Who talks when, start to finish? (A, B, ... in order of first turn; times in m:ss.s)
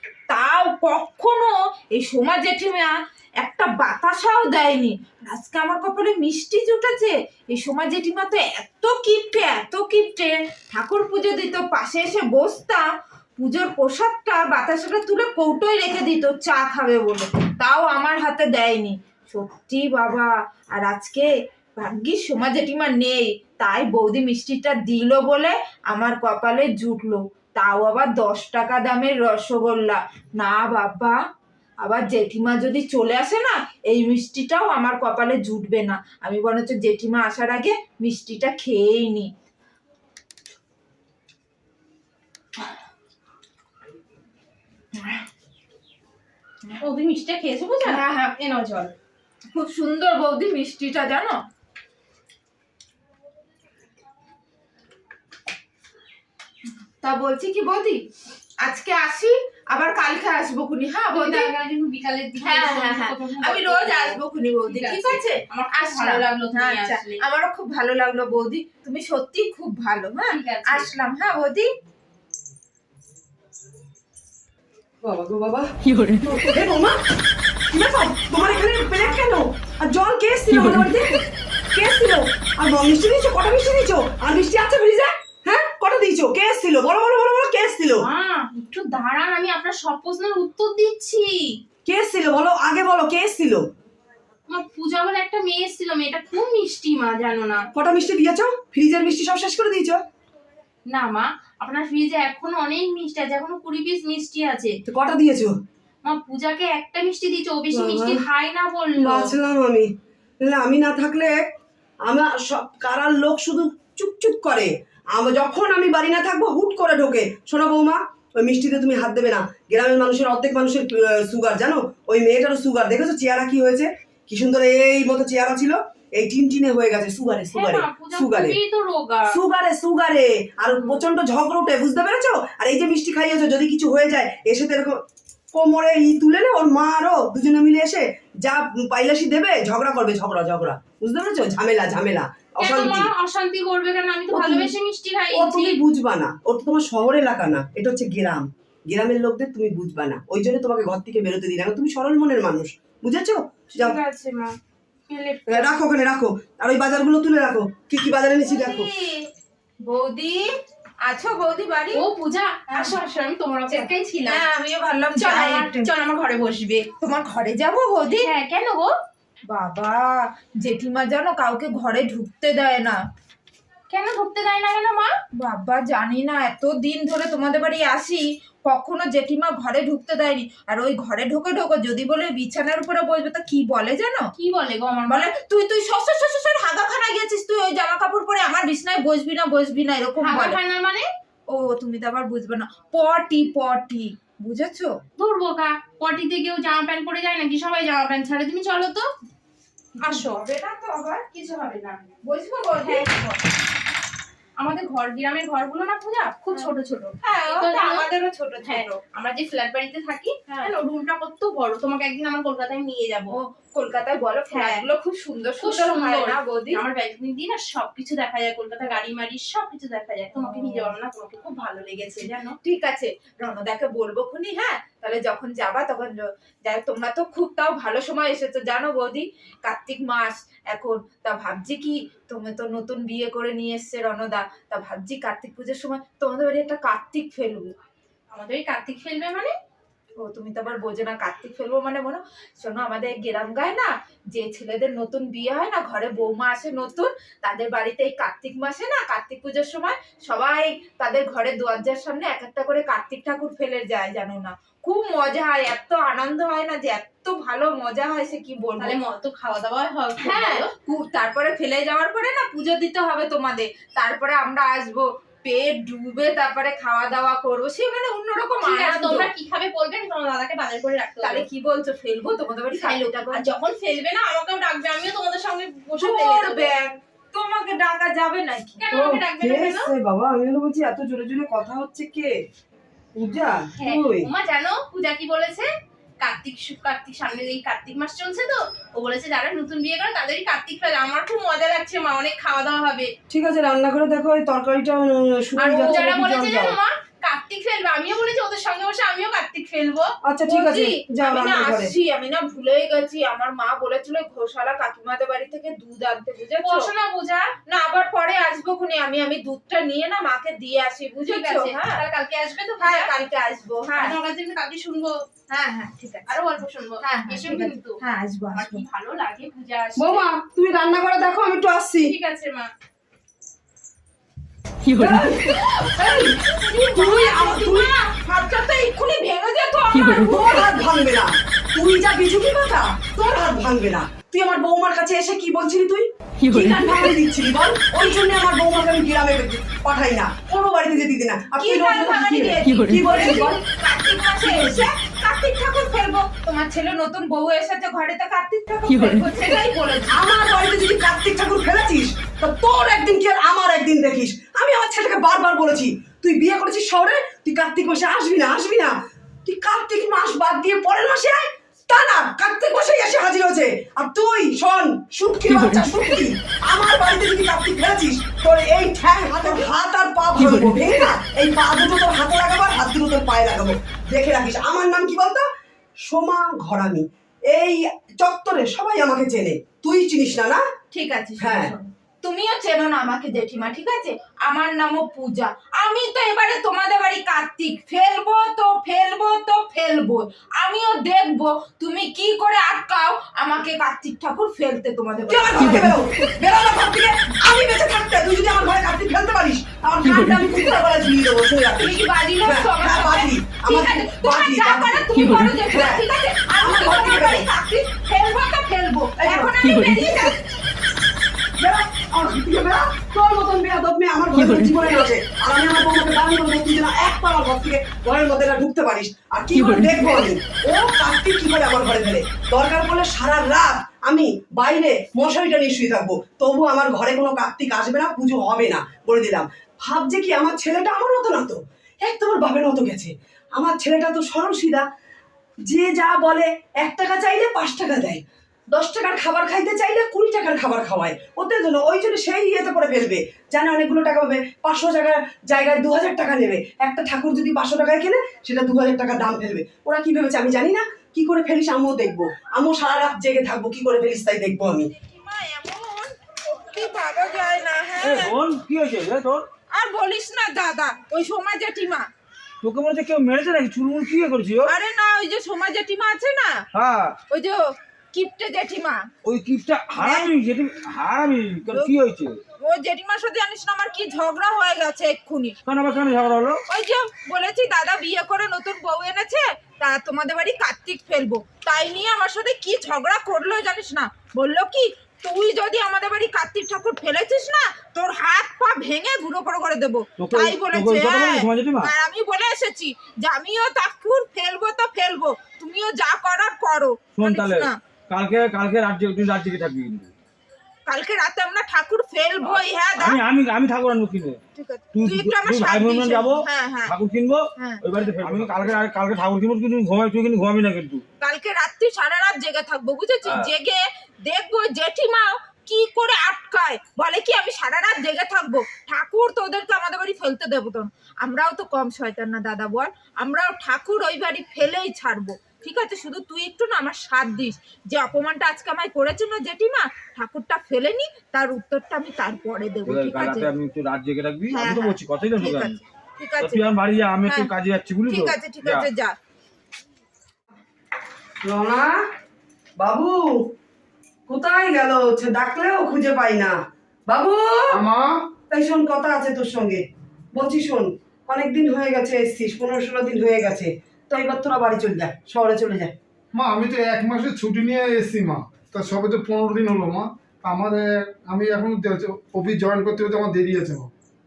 0:00.3-0:12.9 A
0:13.4-0:31.2 A
0:31.8-0:39.3 A
0:45.0-0:45.2 A
0:46.8-0:48.9 B
0:47.8-0:48.3 A
0:49.5-0:51.4 A
0:57.0-0:58.0 A
0:58.6-1:01.5 A
1:01.1-1:07.2 B
1:02.4-1:11.7 A
1:10.3-1:10.9 B
1:15.0-1:17.0 C
1:17.7-1:21.2 C
1:21.8-1:28.1 C
1:28.0-1:31.6 B
1:31.8-1:33.6 C
1:34.5-1:37.7 B
1:37.8-1:40.0 C
1:40.9-1:44.8 B
1:44.9-1:45.6 C
1:46.0-1:49.3 B
1:47.7-1:48.2 C
1:49.0-1:49.9 C
1:50.4-1:51.5 C
1:52.0-2:08.6 C
2:07.5-2:09.4 B
2:09.3-2:15.0 C
2:15.5-2:23.1 C
2:22.6-2:25.8 B
2:24.3-2:24.7 C
2:25.3-2:34.0 C
2:33.7-2:34.6 B
2:35.1-2:35.7 B
2:35.5-2:38.9 C
2:38.5-2:39.3 A
2:39.8-2:40.5 A
2:41.0-2:42.0 A
2:41.9-2:44.4 B
2:42.7-2:43.0 A
2:43.7-2:45.9 A
2:45.2-2:46.9 B
2:47.0-2:48.3 A
2:48.1-2:48.9 B
2:49.5-2:53.0 A
2:53.9-2:55.2 B
2:55.4-3:04.3 A
3:04.4-3:05.3 B
3:05.1-3:10.6 A
3:10.2-3:11.1 B
3:11.5-3:15.0 A
3:15.2-3:19.1 B
3:20.0-3:21.3 A
3:20.0-3:20.4 B
3:21.3-3:22.0 B
3:22.2-3:23.4 A
3:22.8-3:23.1 B
3:24.6-3:28.1 B
3:27.2-3:29.0 A
3:28.7-3:33.4 B
3:30.5-3:30.7 A
3:33.3-3:36.8 A
3:34.5-3:34.8 B
3:35.6-3:42.6 B
3:40.4-3:40.9 A
3:42.6-3:57.7 A
3:58.3-3:59.5 B
4:00.2-4:19.0 A
4:18.8-4:20.7 B
4:20.2-4:29.3 A
4:28.6-4:31.5 B
4:31.2-4:33.4 A
4:32.8-4:36.7 B
4:36.0-4:38.8 A
4:38.8-4:39.9 B
4:38.9-4:42.4 C
4:43.2-4:44.3 C
4:43.8-4:45.7 B
4:46.2-4:53.1 B
4:53.3-4:56.8 C
4:55.6-5:00.1 B
5:00.3-5:01.9 C
5:00.5-5:06.9 A
5:06.6-5:07.5 B
5:07.7-5:12.0 A
5:11.2-5:13.1 B
5:12.8-5:14.2 A
5:13.9-5:15.2 B
5:15.5-5:16.3 A
5:16.3-5:18.0 B
5:17.0-5:18.8 A
5:18.6-5:20.3 B
5:20.0-5:22.2 C
5:22.0-5:22.7 B
5:25.0-5:26.4 C
5:25.8-5:30.7 A
5:26.9-5:27.9 C
5:27.0-5:27.9 B
5:30.2-5:43.6 C
5:41.6-5:50.2 A
5:50.1-6:15.5 C
6:16.0-6:20.6 C
6:20.9-6:35.9 A
6:21.4-6:21.7 C
6:35.3-6:46.0 C
6:41.8-6:50.4 A
6:46.6-6:47.5 C
6:49.2-6:49.6 C
6:51.6-7:14.9 C
7:15.7-7:34.9 C
7:35.0-7:38.4 A
7:38.0-7:39.4 D
7:39.7-7:42.1 A
7:42.6-7:44.7 D
7:44.7-7:46.7 A
7:46.7-7:47.2 D
7:47.3-7:49.1 A
7:49.2-7:52.4 D
7:50.0-7:50.3 A
7:52.6-7:55.6 A
7:55.7-7:56.6 D
7:56.7-8:17.8 A
8:10.2-8:11.9 D
8:17.2-8:20.1 D
8:20.9-8:23.2 A
8:23.0-8:24.4 D
8:24.6-8:27.0 A
8:24.9-8:31.0 D
8:27.6-8:28.8 A
8:31.2-8:53.5 A
8:33.3-8:33.5 D
8:52.9-8:55.8 D
8:54.5-8:57.5 A
8:56.4-8:58.9 D
8:58.1-8:59.2 A
9:01.4-9:02.0 C
9:02.8-9:03.5 C
9:04.3-9:06.6 C
9:07.1-9:07.8 C
9:07.7-9:08.2 E
9:08.5-9:09.8 C
9:10.3-9:16.0 C
9:16.4-9:23.9 E